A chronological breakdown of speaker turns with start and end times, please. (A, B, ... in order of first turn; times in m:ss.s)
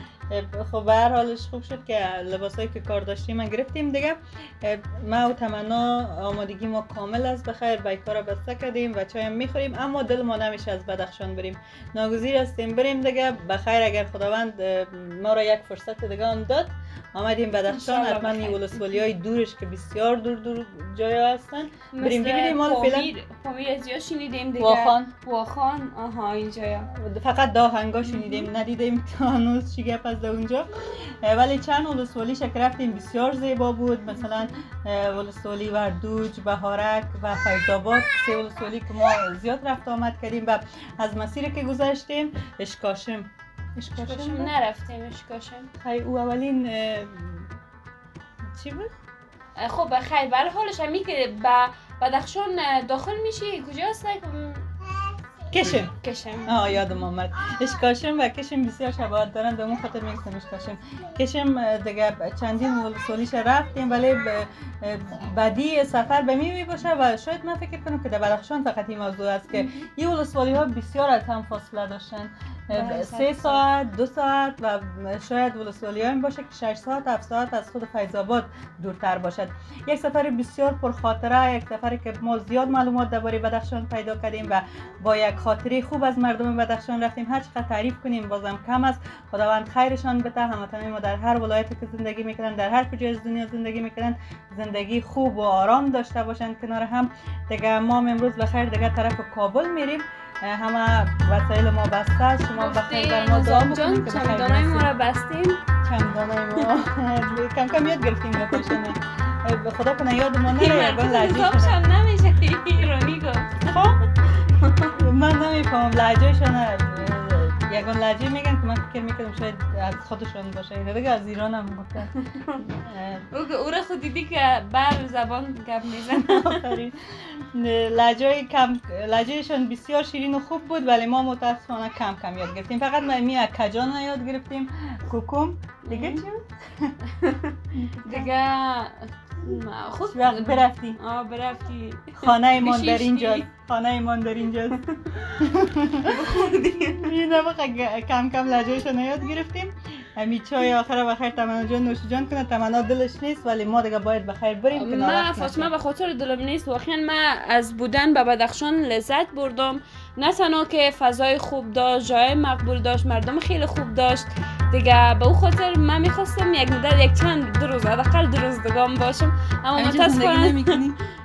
0:00.3-0:23.1 A
0:17.7-0:19.0 B
0:21.9-0:26.9 B
0:24.6-0:25.1 A
0:26.9-0:44.5 A
0:28.1-0:28.5 B
0:44.0-0:45.7 B
0:45.8-0:47.5 A
0:48.5-0:48.9 A
0:49.6-0:54.7 B
0:55.5-0:55.9 A
0:56.0-0:56.8 B
0:56.5-1:44.9 A
1:12.7-1:13.6 B
1:42.6-1:45.6 B
1:45.8-1:51.8 A
1:50.5-1:53.8 B
1:53.7-1:54.0 A
1:54.5-1:55.0 B
1:54.9-2:02.1 A
2:02.7-2:03.3 A
2:03.3-2:06.8 B
2:06.0-2:17.0 A
2:15.9-2:16.2 B
2:17.1-2:23.5 B
2:17.7-2:18.3 A
2:20.1-2:21.0 A
2:22.2-2:26.2 A
2:26.0-2:27.2 B
2:27.0-2:35.7 A
2:34.7-2:50.8 B
2:49.8-2:51.0 A